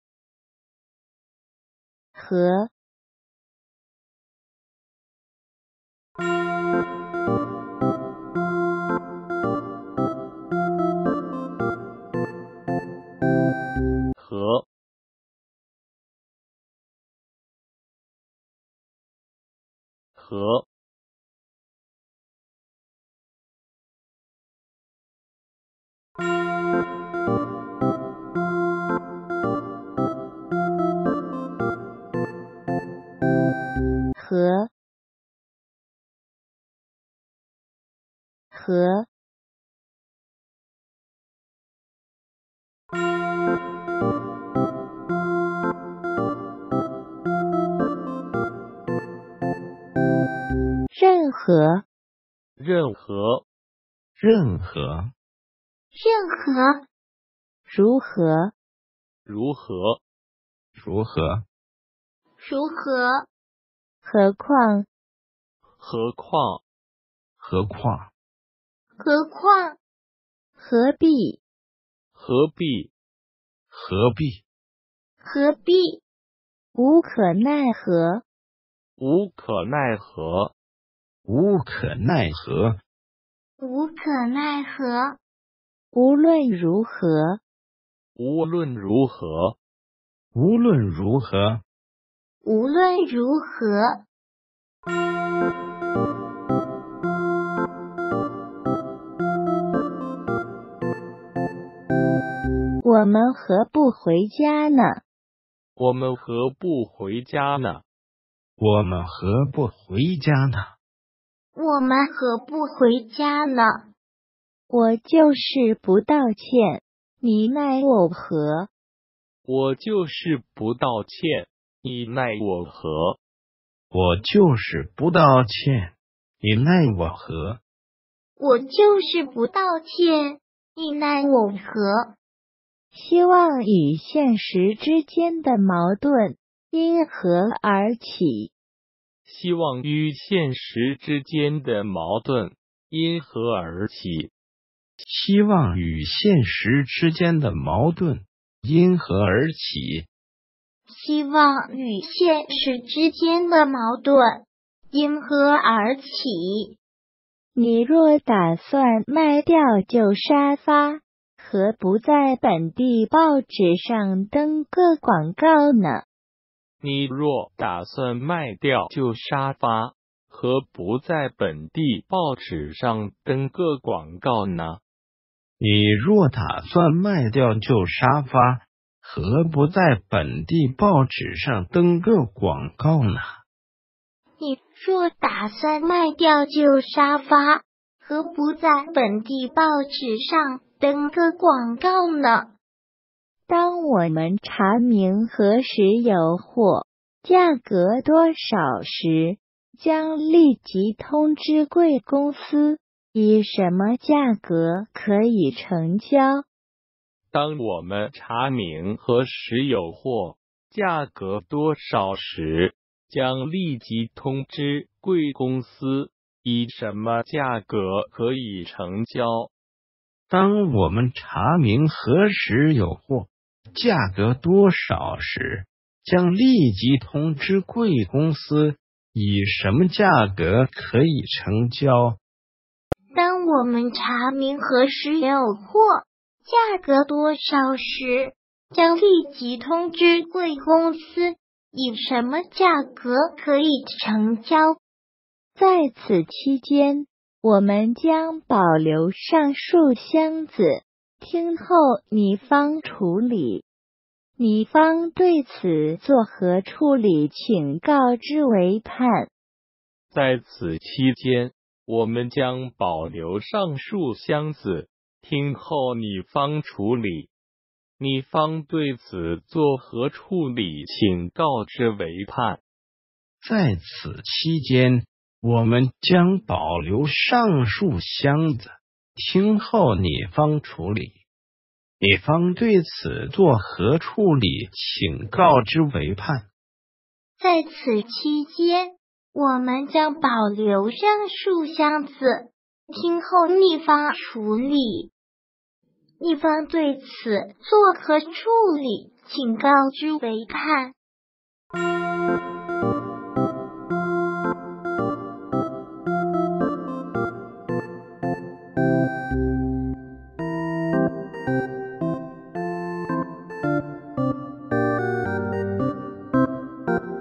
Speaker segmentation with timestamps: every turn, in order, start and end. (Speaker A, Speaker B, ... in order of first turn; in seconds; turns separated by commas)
Speaker A: 2.2-2.7, Speaker B: 14.2-14.7, Speaker B: 20.2-20.6, Speaker A: 34.2-34.7, Speaker A: 38.5-39.1, Speaker A: 50.9-51.8, Speaker B: 52.6-53.4, Speaker C: 54.2-55.1, Speaker D: 56.0-56.8, Speaker A: 57.7-58.5, Speaker B: 59.3-60.0, Speaker C: 60.8-61.4, Speaker D: 62.4-63.3, Speaker A: 64.0-64.9, Speaker B: 65.8-66.6, Speaker C: 67.4-68.1, Speaker D: 69.0-69.8, Speaker A: 70.6-71.4, Speaker B: 72.2-72.9, Speaker C: 73.7-74.4, Speaker D: 75.2-76.0, Speaker A: 76.8-78.2, Speaker B: 79.0-80.5, Speaker C: 81.3-82.8, Speaker D: 83.6-85.2, Speaker A: 85.9-87.4, Speaker B: 88.2-89.6, Speaker C: 90.3-91.6, Speaker D: 92.5-94.0, Speaker A: 102.8-105.0, Speaker B: 105.8-107.8, Speaker C: 108.6-110.7, Speaker D: 111.6-113.9, Speaker A: 114.7-118.7, Speaker B: 119.5-123.2, Speaker C: 123.9-127.6, Speaker D: 128.4-132.1, Speaker A: 132.9-138.5, Speaker B: 139.3-144.3, Speaker C: 145.0-150.1, Speaker D: 150.9-156.8, Speaker A: 157.6-166.1, Speaker B: 166.8-174.8, Speaker C: 175.6-183.3, Speaker D: 184.4-192.5, Speaker A: 193.5-206.4, Speaker B: 207.3-219.5, Speaker C: 220.3-232.2, Speaker D: 233.2-244.8, Speaker A: 245.6-253.7, Speaker A: 254.4-259.3, Speaker B: 260.1-267.3, Speaker B: 268.0-272.6, Speaker C: 273.4-281.2, Speaker C: 282.0-286.5, Speaker D: 287.4-295.1, Speaker D: 296.2-300.9